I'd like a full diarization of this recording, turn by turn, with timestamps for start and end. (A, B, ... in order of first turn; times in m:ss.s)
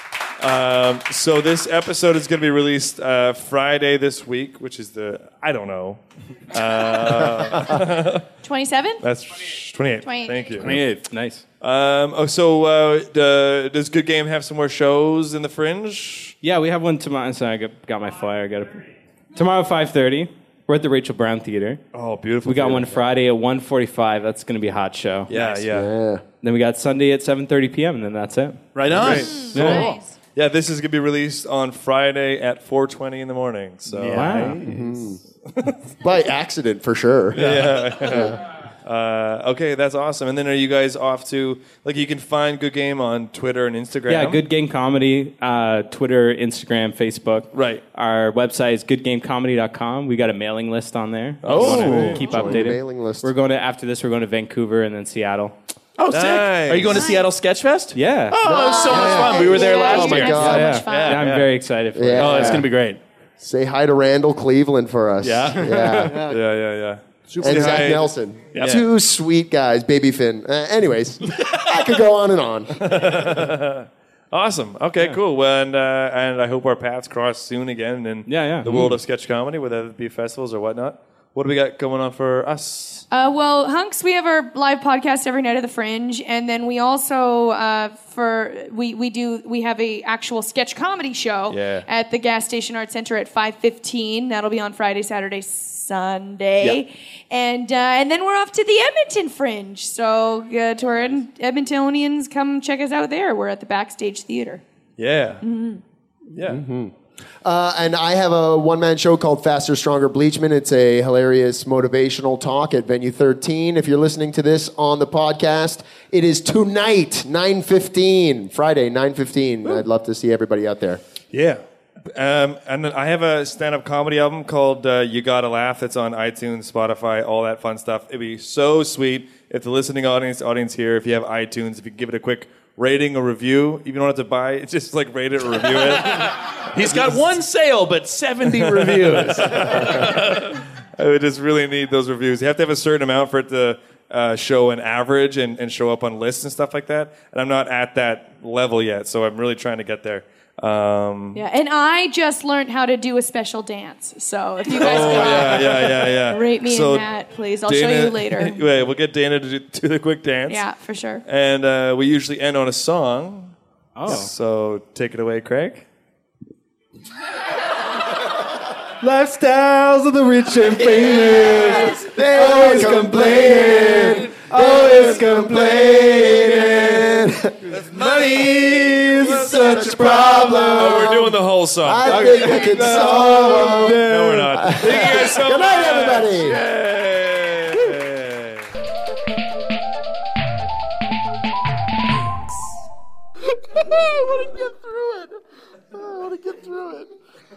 0:00.4-0:06.0 A
0:06.5-0:08.3 A
0:08.4-0:09.1 B
0:09.0-0:10.9 A
0:10.0-0:10.6 B
0:10.6-0:11.1 C
0:10.7-0:11.4 D
0:11.6-0:16.4 A
0:16.4-0:18.8 D
0:19.4-0:21.8 D
0:21.9-0:23.1 A
0:22.4-0:25.3 D
0:25.3-0:25.9 A
0:25.7-0:26.2 E
0:26.4-0:30.0 D
0:28.8-0:29.8 C
0:28.9-0:34.6 A
0:29.0-0:30.0 B
0:33.9-0:34.6 C
0:34.0-0:34.6 D
0:34.6-0:35.2 E
0:36.0-0:38.4 E
0:37.4-0:44.4 A
0:37.4-0:37.7 C
0:44.1-0:55.6 D
0:47.5-0:47.8 A
0:51.4-0:52.2 A
0:51.4-0:52.2 C
0:51.6-0:53.3 E
0:56.0-1:01.5 C
0:56.1-0:57.2 A
0:56.9-0:57.2 B
0:58.0-0:58.4 D
0:58.4-1:00.8 E
0:58.5-1:01.2 B
1:00.0-1:00.4 A
1:00.4-1:02.6 D
1:02.0-1:02.7 E
1:02.2-1:03.0 C
1:02.2-1:02.6 A
1:03.4-1:06.2 E
1:05.2-1:05.6 C
1:05.9-1:08.8 A
1:06.0-1:06.4 F
1:07.3-1:08.1 F
1:07.4-1:12.8 E
1:08.5-1:08.8 C
1:12.8-1:23.1 A
1:18.3-1:18.7 D
1:18.7-1:18.9 E
1:23.1-1:44.6 B
1:31.5-1:31.9 A
1:45.0-1:45.4 A
1:45.4-1:45.8 B
1:46.3-1:46.6 A
1:46.5-2:01.0 E
2:01.3-2:01.6 A
2:02.1-2:17.4 A
2:16.1-2:20.5 C
2:18.6-2:31.4 A
2:31.3-2:38.6 B
2:34.8-2:40.6 A
2:40.5-2:41.2 B
2:41.3-2:43.5 A
2:44.0-2:44.3 D
2:44.1-2:45.9 A
2:49.0-2:57.3 D
2:50.8-2:57.6 E
2:57.7-3:00.1 A
2:58.4-3:01.1 D
2:59.4-3:06.6 E
3:00.7-3:03.0 A
3:02.0-3:04.8 D
3:02.1-3:03.6 F
3:04.0-3:08.7 A
3:13.8-3:15.3 F
3:16.0-3:17.1 F